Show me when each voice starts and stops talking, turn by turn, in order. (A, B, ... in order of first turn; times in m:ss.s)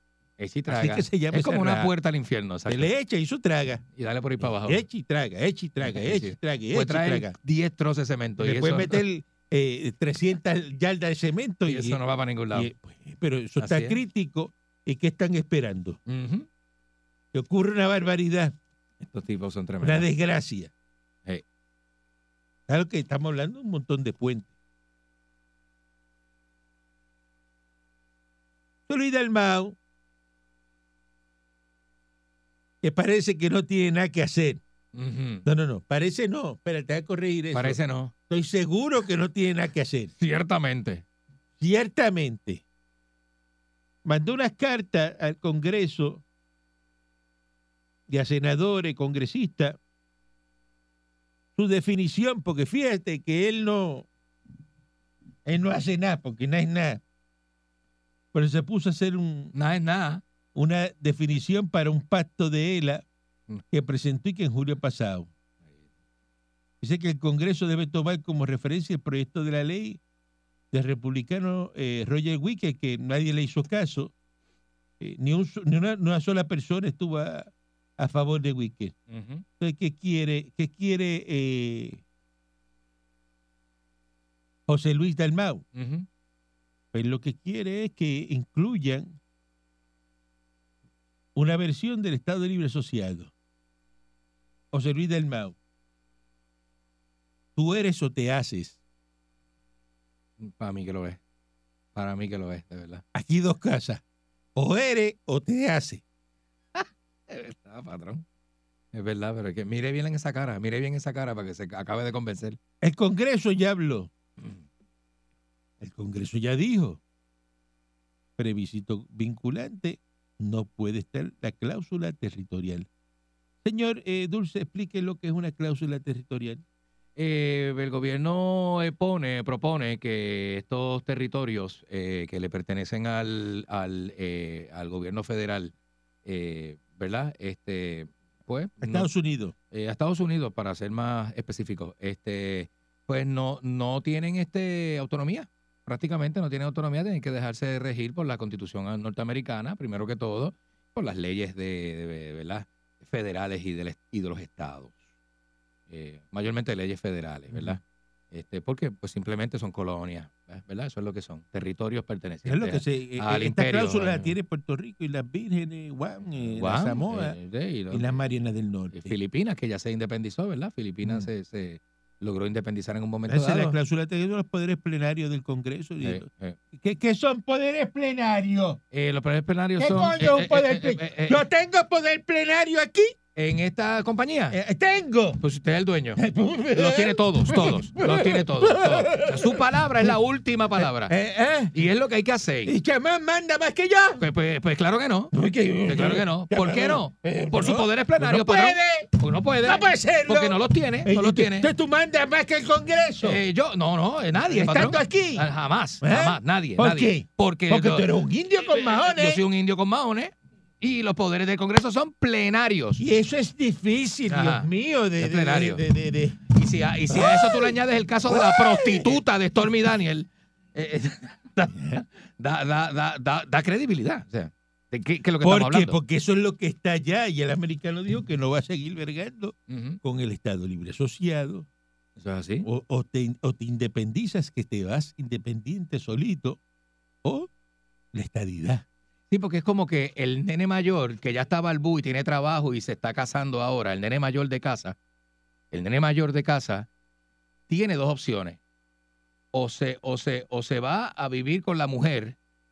0:00.4-0:02.9 A
0:00.7-0:01.9 B
0:02.7-0:03.8 B
0:04.0-0:04.8 A
0:04.4-0:07.3 B
0:05.8-0:09.0 A
0:08.4-0:16.0 B
0:11.7-0:12.7 A
0:13.6-0:14.0 A
0:16.1-0:16.5 A
0:17.3-0:18.5 B
0:19.0-0:20.1 A
0:19.8-0:20.7 B
0:22.7-0:24.5 B
0:28.9-0:29.8 B
0:32.8-0:34.6 B
0:34.9-0:35.4 A
0:35.4-0:40.1 B
0:37.5-0:38.1 A
0:40.2-0:41.0 A
0:41.6-0:42.6 B
0:44.0-0:46.2 B
0:48.1-0:49.8 B
0:51.6-0:54.1 B
0:55.4-0:57.0 B
0:58.3-0:59.5 B
0:59.5-1:00.2 A
1:00.5-1:03.0 B
1:03.7-1:05.3 B
1:06.8-1:10.0 B
1:10.7-1:14.1 B
1:15.0-1:18.9 B
1:19.1-1:19.4 A
1:19.6-1:22.0 B
1:24.7-1:25.6 B
1:25.7-1:26.0 A
1:26.9-1:29.2 B
1:31.3-1:33.3 B
1:34.7-1:35.6 B
1:37.6-1:38.8 B
1:40.4-1:41.2 A
1:41.9-1:43.0 A
1:43.1-1:44.0 B
1:44.6-1:46.0 B
1:46.7-1:48.2 A
1:48.9-1:52.6 A
1:52.8-1:54.1 B
1:55.8-1:57.0 B
1:58.4-2:02.9 B
2:03.6-2:06.6 B
2:07.2-2:15.7 A
2:16.2-2:19.1 A
2:18.8-2:19.5 B
2:19.7-2:35.0 A
2:35.9-2:37.8 A
2:37.5-2:37.8 B
2:38.3-2:44.3 A
2:42.4-2:47.4 B
2:46.6-2:48.2 A
2:47.9-2:49.1 B
2:48.9-2:53.8 A
2:51.0-2:51.3 B
2:53.3-2:58.8 B
2:56.0-2:56.6 A
2:58.9-3:01.4 A
2:59.8-3:03.1 B
3:03.4-3:04.6 A
3:04.5-3:05.4 B
3:05.4-3:06.2 A
3:06.2-3:10.2 B
3:06.7-3:11.1 A
3:10.8-3:11.8 B
3:11.7-3:12.7 A
3:12.6-3:14.2 B
3:14.2-3:15.3 A
3:15.3-3:23.4 B
3:15.8-3:21.7 A
3:23.2-3:28.1 A
3:24.3-3:25.5 B
3:26.0-3:29.4 B
3:28.6-3:33.0 A
3:33.0-3:36.5 B
3:34.3-3:34.7 A
3:35.2-3:35.8 A
3:36.5-3:46.0 A
3:37.1-3:39.2 B
3:41.7-3:42.0 B
3:45.4-3:51.7 B
3:49.7-3:50.0 A
3:52.2-3:52.7 A
3:52.6-3:56.6 B
3:57.2-3:57.5 B
3:58.1-3:58.8 B
3:59.3-4:05.0 A
4:05.7-4:06.9 A
4:07.7-4:08.6 A
4:09.5-4:12.4 A